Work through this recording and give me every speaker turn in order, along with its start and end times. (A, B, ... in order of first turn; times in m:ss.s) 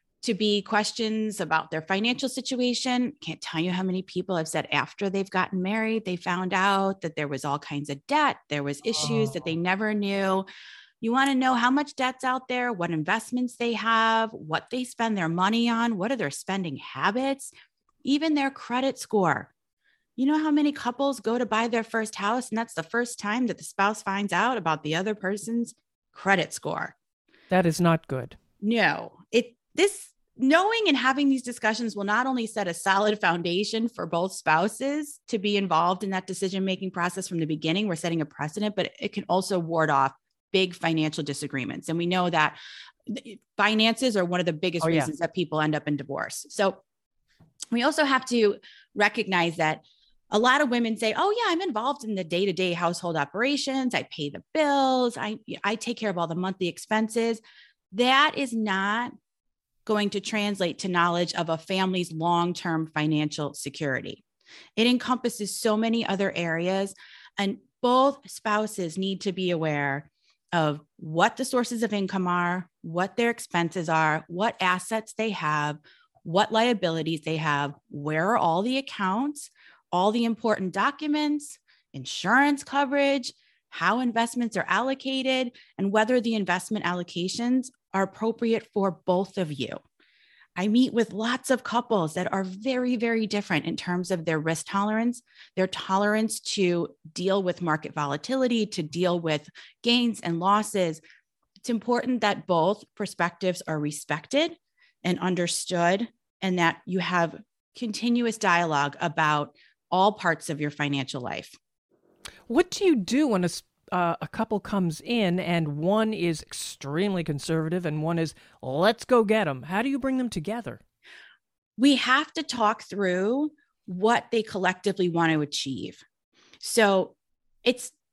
0:00.2-0:10.5 A
0:09.0-0:09.3 B
0:11.0-0:17.5 A
0:18.0-0:19.5 A
0:20.2-0:27.0 A
0:27.5-0:28.4 B
0:28.6-0:46.8 A
0:44.8-0:45.1 B
0:47.7-0:57.4 A
0:57.9-0:59.1 A
0:59.9-1:04.2 A
1:04.8-1:29.8 A
1:30.6-1:41.0 A
1:41.6-1:51.6 A
1:52.5-2:00.8 B
2:01.8-2:06.0 A
2:06.6-2:07.9 A